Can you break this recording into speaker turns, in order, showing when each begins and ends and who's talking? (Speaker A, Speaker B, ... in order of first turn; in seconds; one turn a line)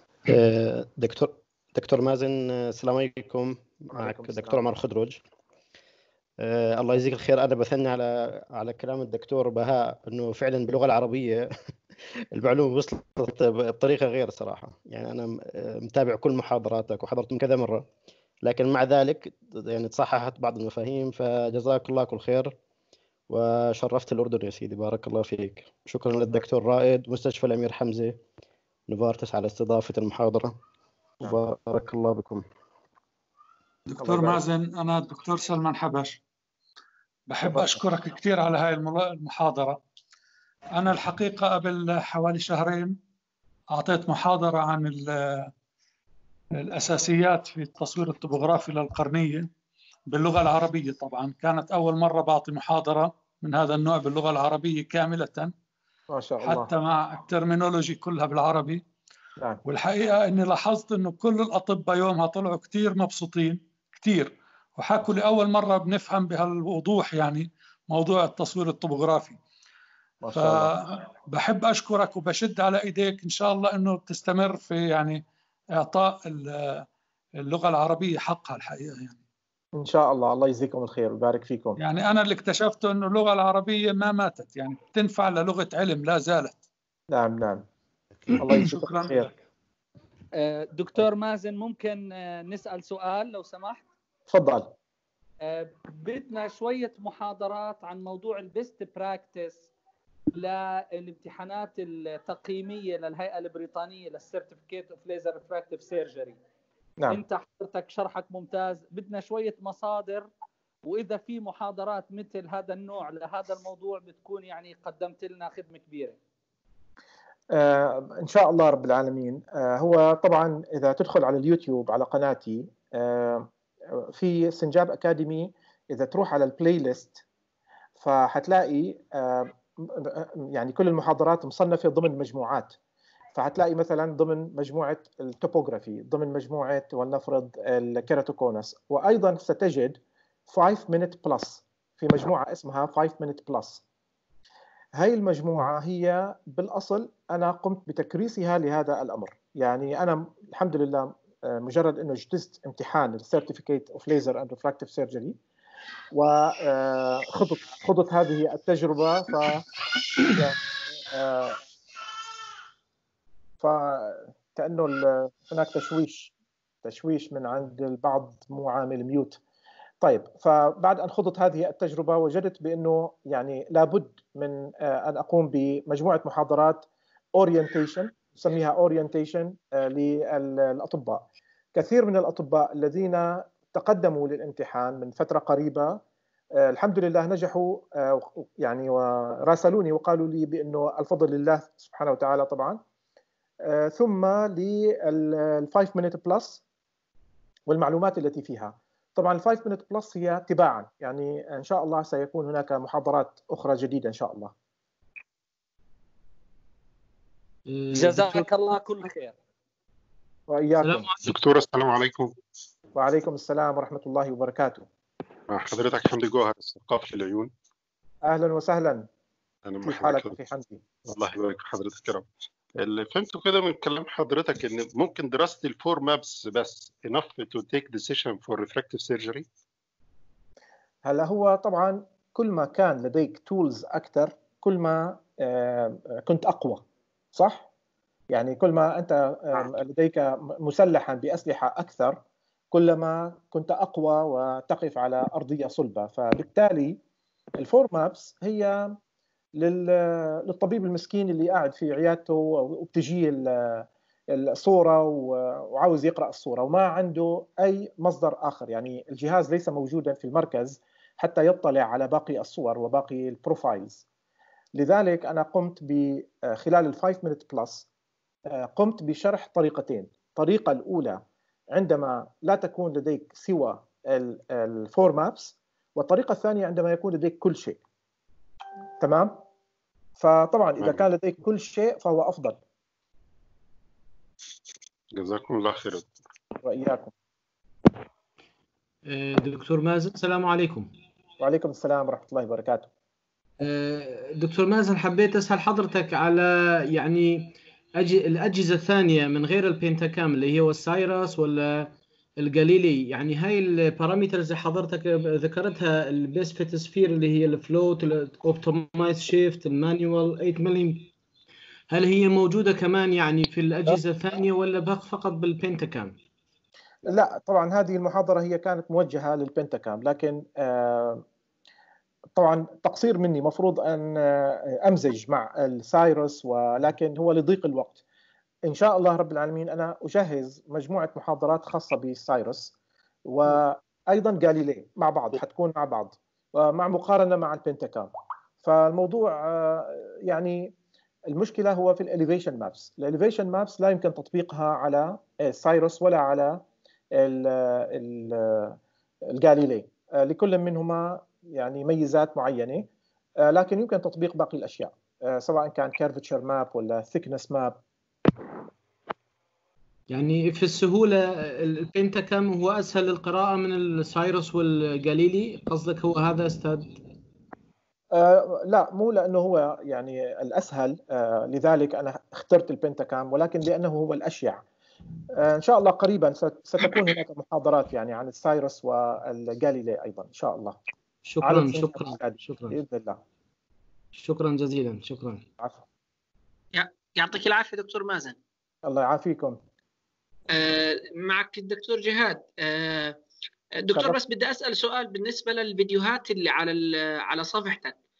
Speaker A: 0.3-5.2
Speaker B: 3.9-4.6
Speaker A: 6.4-11.5
Speaker A: 12.3-17.9
Speaker A: 18.4-22.5
Speaker A: 23.3-28.2
Speaker A: 28.9-30.5
Speaker A: 31.2-32.4
Speaker C: 33.9-36.2
Speaker B: 34.0-34.4
Speaker C: 37.3-39.8
Speaker B: 37.4-37.8
Speaker C: 40.7-43.0
Speaker C: 43.7-45.5
Speaker C: 46.6-49.5
Speaker C: 50.1-55.5
Speaker B: 56.1-56.7
Speaker C: 56.4-58.8
Speaker C: 59.6-69.4
Speaker B: 70.2-70.7
Speaker C: 70.3-75.2
Speaker C: 75.8-76.8
Speaker C: 77.4-79.2
Speaker B: 79.8-81.8
Speaker C: 81.8-86.6
Speaker B: 87.1-87.6
Speaker C: 88.3-89.3
Speaker B: 88.4-89.3
Speaker D: 90.3-93.8
Speaker B: 94.3-94.7
Speaker D: 95.5-99.7
Speaker D: 100.3-106.4
Speaker D: 107.1-110.2
Speaker D: 110.8-116.2
Speaker B: 117.5-127.2
Speaker B: 128.0-132.8
Speaker B: 133.3-140.0
Speaker B: 140.5-143.8
Speaker B: 145.0-155.4
Speaker B: 156.1-159.6
Speaker B: 160.3-161.6
Speaker B: 163.6-166.3
Speaker B: 166.8-169.4
Speaker B: 170.0-181.2
Speaker B: 181.7-186.0
Speaker B: 186.6-192.8
Speaker B: 193.6-196.6
Speaker B: 197.7-204.5
Speaker E: 207.7-208.2
Speaker D: 207.9-209.3
Speaker B: 210.5-211.1
Speaker F: 211.2-212.3
Speaker B: 212.9-214.8
Speaker F: 215.5-217.5
Speaker B: 218.2-219.1
Speaker F: 219.7-220.4
Speaker B: 219.8-220.8
Speaker F: 221.1-229.4
Speaker B: 231.0-236.8
Speaker B: 237.3-237.7
Speaker B: 238.3-242.2
Speaker B: 242.7-247.0
Speaker B: 247.6-249.0
Speaker B: 249.6-264.0
Speaker B: 264.7-267.9
Speaker B: 268.5-271.2
Speaker B: 271.7-277.8
Speaker B: 279.0-279.4
Speaker B: 280.2-282.6
Speaker F: 285.1-286.1
Speaker B: 286.6-287.1
Speaker E: 289.1-290.9
Speaker B: 291.4-292.9
Speaker E: 293.6-311.1
Speaker E: 311.9-316.2
Speaker B: 317.1-321.2
Speaker B: 322.4-328.0
Speaker B: 328.6-332.7
Speaker B: 333.3-338.1
Speaker B: 338.6-340.7
Speaker B: 341.3-346.6
Speaker B: 347.1-348.8
Speaker B: 349.3-352.9
Speaker B: 353.4-357.8
Speaker E: 360.1-367.0
Speaker B: 368.1-374.6
Speaker B: 375.3-380.8
Speaker E: 381.2-382.8
Speaker B: 381.4-383.2
Speaker E: 384.1-385.4
Speaker G: 386.7-388.4
Speaker B: 388.8-389.6
Speaker G: 390.5-393.2
Speaker G: 393.8-397.9